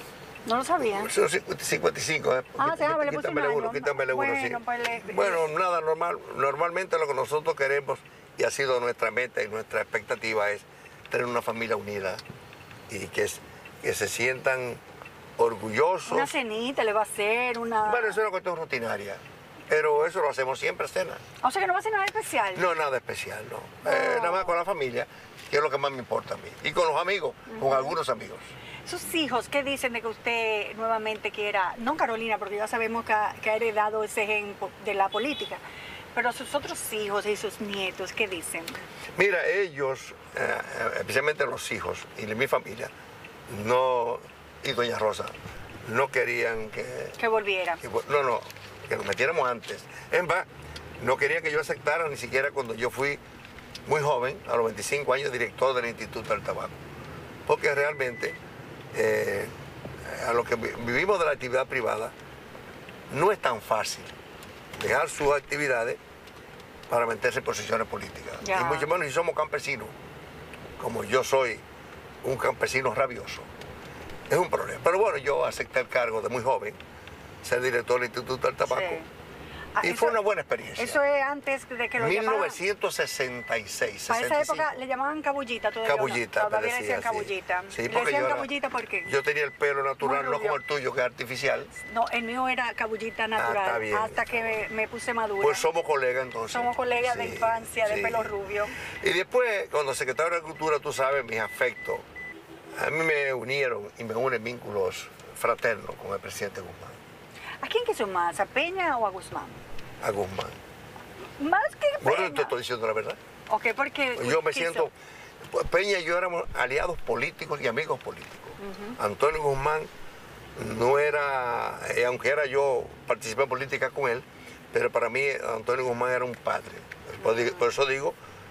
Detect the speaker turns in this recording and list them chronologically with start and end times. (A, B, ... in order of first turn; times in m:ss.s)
0:00.4-0:01.1 A
0:00.9-0:12.2 B
0:02.6-0:05.5 A
0:12.9-0:14.8 B
0:15.4-0:16.3 B
0:16.1-0:18.2 A
0:17.8-0:21.2 B
0:21.4-0:22.6 A
0:22.6-0:28.5 B
0:23.8-0:24.5 A
0:27.5-0:28.0 A
0:28.9-0:35.6 A
0:36.1-0:38.8 A
0:39.2-0:42.9 B
0:43.5-0:45.3 B
0:45.8-0:47.2 B
0:47.2-0:47.8 A
0:47.8-0:50.5 B
0:51.0-0:53.2 B
0:53.9-0:56.8 B
0:57.5-0:58.4 B
0:58.9-0:59.5 B
1:00.1-1:02.1 B
1:03.1-1:04.1 B
1:04.8-1:06.0 B
1:06.9-1:09.9 B
1:08.4-1:08.9 A
1:10.8-1:11.6 B
1:12.2-1:13.5 B
1:14.3-1:16.8 B
1:17.4-1:19.0 B
1:18.6-1:19.1 A
1:19.8-1:20.2 A
1:19.8-1:21.0 B
1:20.8-1:22.6 A
1:22.0-1:24.8 B
1:24.1-1:29.1 A
1:25.8-1:28.5 B
1:29.0-1:31.7 B
1:30.0-1:30.6 A
1:31.7-1:35.7 A
1:33.4-1:34.6 B
1:35.4-1:38.3 B
1:36.5-1:38.8 A
1:39.0-1:42.0 B
1:42.8-1:47.0 B
1:47.6-1:49.6 A
1:50.0-1:50.6 B
1:51.4-1:52.5 A
1:52.0-1:53.2 B
1:53.5-1:54.9 A
1:54.2-1:59.9 B
1:58.6-1:59.0 A
2:00.6-2:08.2 B
2:07.2-2:07.6 A